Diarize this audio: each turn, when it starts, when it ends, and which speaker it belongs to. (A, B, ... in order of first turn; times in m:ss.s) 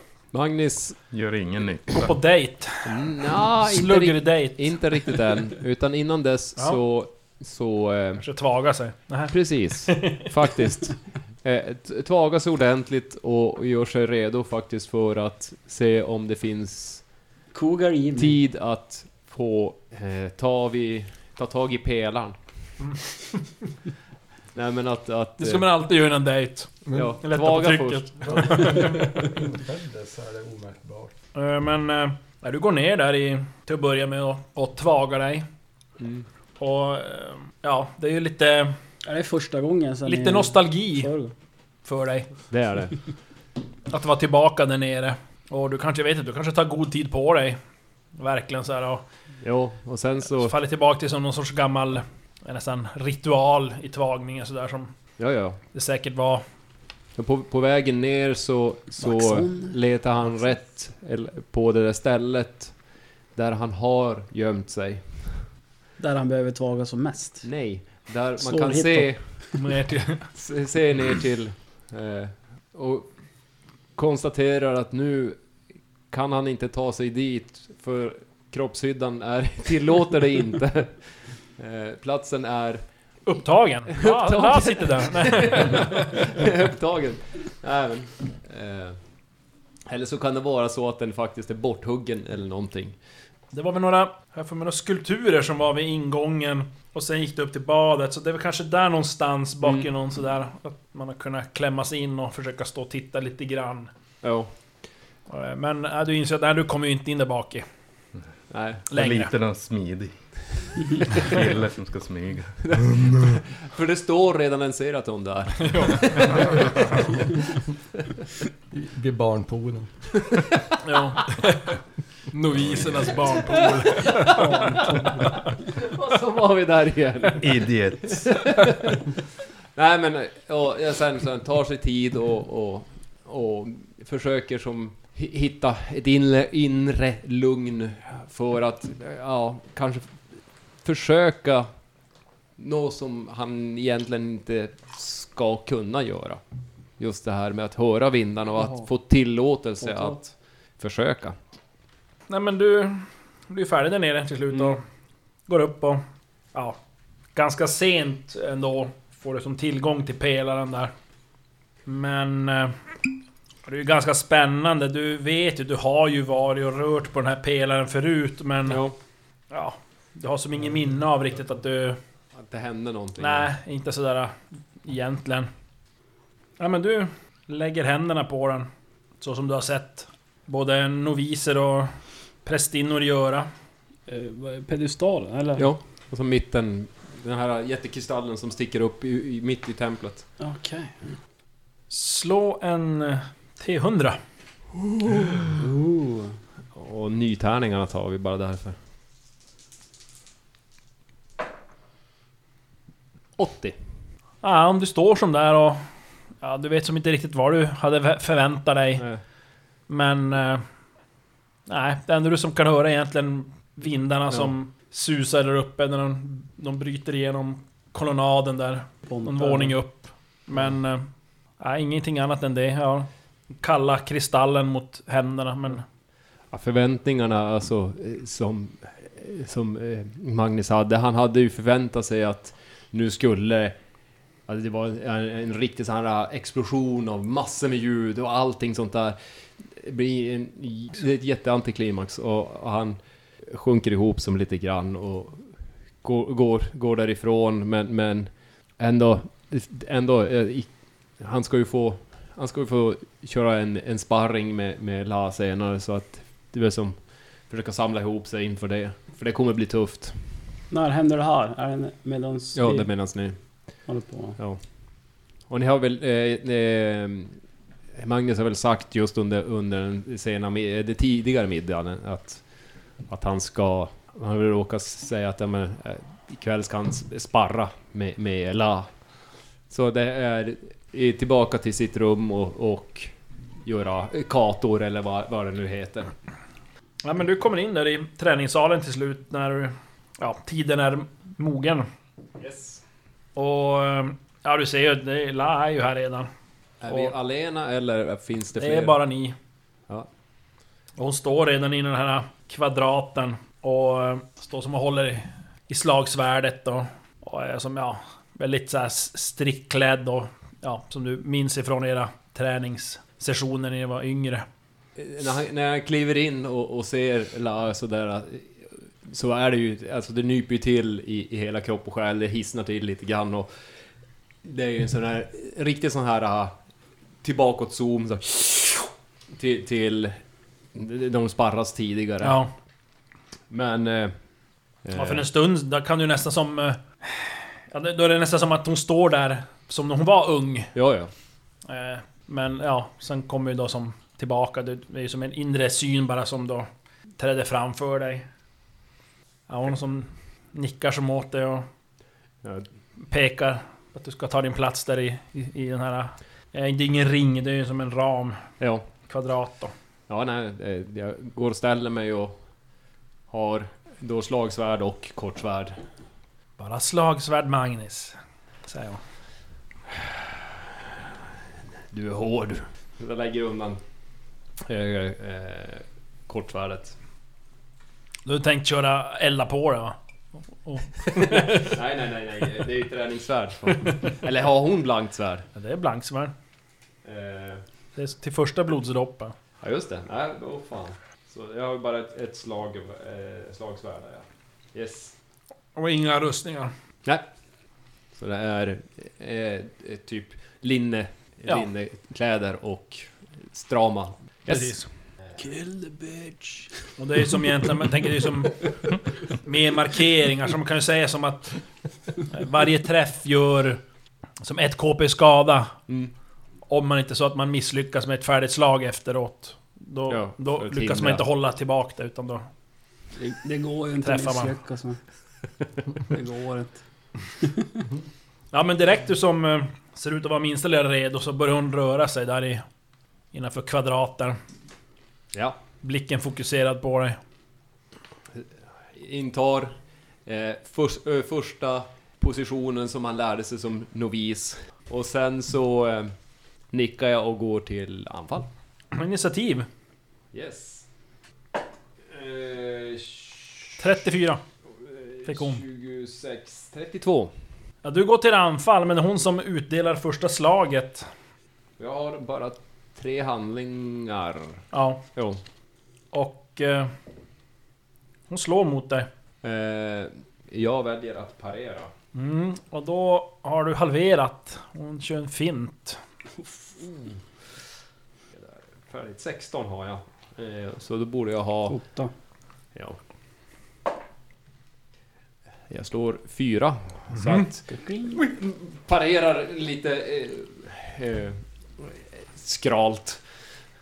0:00.3-0:01.0 A
0:01.1-0:02.2 B
0:01.9-0:05.2 C
0:02.8-0:08.2 A
0:08.2-0:10.3 C
0:09.3-0:17.0 A
0:17.5-0:18.4 D
0:18.2-0:22.4 A
0:24.5-0:25.6 A
0:25.4-0:29.3 C
0:26.9-0:27.2 E
0:26.9-0:28.8 A
0:28.2-0:31.1 E
0:31.3-0:35.4 C
0:36.0-0:36.2 A
0:36.6-0:38.8 C
0:39.0-0:41.3 D
0:40.0-0:41.1 C
0:41.8-0:42.4 C
0:42.5-0:43.0 A
0:43.9-0:47.6 C
0:48.2-0:49.0 C
0:49.4-0:50.5 A
0:50.3-0:54.9 C
0:55.2-0:55.6 A
0:55.7-0:56.4 C
0:57.2-1:02.8 A
0:59.0-0:59.8 D
1:03.3-1:05.4 A
1:06.0-1:07.4 D
1:07.4-1:09.2 A
1:08.4-1:09.4 D
1:09.5-1:10.3 C
1:10.3-1:13.1 A
1:13.9-1:15.4 A
1:16.1-1:22.8 A
1:23.2-1:26.3 C
1:23.9-1:29.0 A
1:29.9-1:33.0 A
1:33.5-1:43.9 C
1:39.6-1:39.9 A
1:44.2-1:44.5 A
1:45.3-1:47.6 C
1:48.5-1:48.8 A
1:48.9-1:53.4 B
1:48.9-1:49.3 C
1:52.6-1:56.7 A
1:55.6-1:56.6 C
1:58.7-1:59.9 E
2:00.8-2:01.8 C
2:02.3-2:05.3 C
2:02.6-2:03.0 B
2:04.0-2:04.6 A
2:04.2-2:05.4 D
2:05.7-2:09.0 A
2:07.4-2:08.4 B
2:09.7-2:20.3 A
2:20.8-2:21.7 A
2:22.6-2:26.4 A
2:27.0-2:31.4 A
2:29.8-2:30.2 D
2:32.3-2:34.8 C
2:35.5-2:36.8 C
2:37.3-2:40.9 C
2:41.8-2:42.8 C
2:43.6-2:48.8 C
2:48.6-2:49.0 A
2:49.5-2:52.0 C
2:52.3-2:53.5 A
2:53.2-2:55.5 C
2:56.6-2:58.7 C
2:59.2-3:01.9 C
3:02.4-3:03.5 C
3:04.1-3:05.6 D
3:05.6-3:10.2 A
3:10.4-3:11.1 D
3:11.9-3:14.2 C
3:15.6-3:16.3 D
3:16.7-3:18.8 A
3:23.4-3:23.8 A
3:24.4-3:25.8 C
3:26.4-3:29.1 C
3:29.0-3:29.2 A
3:29.9-3:30.6 C
3:31.7-3:41.1 C
3:39.1-3:39.8 D
3:41.6-3:43.1 C
3:43.6-3:45.8 C
3:46.5-3:53.8 A
3:54.5-4:20.2 A
4:20.7-4:22.9 D
4:22.5-4:23.4 A
4:23.9-4:24.4 D
4:25.5-4:27.4 A
4:28.0-4:32.4 A
4:33.0-4:38.9 A
4:39.7-4:43.1 A
4:43.6-4:46.1 A
4:47.0-4:51.9 C
4:52.4-4:52.8 A
4:53.4-4:56.3 C
4:56.8-4:59.0 A
4:56.9-4:57.1 C
4:58.5-4:59.4 C
5:01.0-5:14.4 C
5:15.0-5:23.5 A
5:24.4-5:26.5 A
5:27.2-5:30.2 A
5:30.7-5:32.4 A
5:32.2-5:32.5 C
5:33.5-5:34.2 A
5:34.8-5:35.2 A
5:34.9-5:40.7 C
5:40.7-5:41.1 A
5:41.7-5:48.2 C
5:49.5-5:51.6 C
5:52.4-5:52.7 A
5:53.0-5:58.4 C
5:58.6-5:58.8 A
5:59.0-5:59.7 C
6:00.1-6:02.4 A
6:03.3-6:05.8 A
6:06.6-6:09.0 C
6:09.9-6:10.4 A
6:11.9-6:13.8 A
6:14.6-6:17.0 A
6:18.2-6:20.0 C
6:20.5-6:21.8 C
6:21.1-6:25.5 A
6:23.7-6:24.0 C
6:25.5-6:26.3 C
6:27.0-6:27.6 A
6:28.0-6:29.3 C
6:29.6-6:35.1 A
6:35.7-6:36.7 C
6:38.1-6:44.8 A
6:44.4-6:46.3 C
6:47.0-6:51.6 C
6:52.2-6:53.8 C
6:54.4-6:55.7 C
6:55.9-6:56.1 A
6:56.7-7:02.4 C
7:00.1-7:01.2 A
7:03.2-7:05.0 D
7:04.0-7:04.5 C
7:06.0-7:06.8 D
7:08.5-7:12.6 C
7:13.3-7:14.4 C
7:15.3-7:15.6 A
7:15.8-7:17.2 C
7:18.3-7:26.1 A
7:26.7-7:28.5 A
7:28.9-7:29.7 C
7:30.3-7:30.8 A
7:32.1-7:33.8 A
7:33.8-7:34.4 C
7:34.6-7:37.3 A
7:35.3-7:35.6 C
7:37.8-7:41.1 C
7:41.8-7:44.6 A
7:44.7-7:45.0 C
7:45.1-7:45.4 A
7:46.1-7:46.9 C
7:48.3-7:49.1 C
7:49.4-7:51.9 A
7:52.1-7:56.0 C
7:58.3-8:01.8 A
8:01.7-8:02.1 D
8:05.7-8:13.2 A
8:07.2-8:07.4 C
8:07.7-8:08.2 D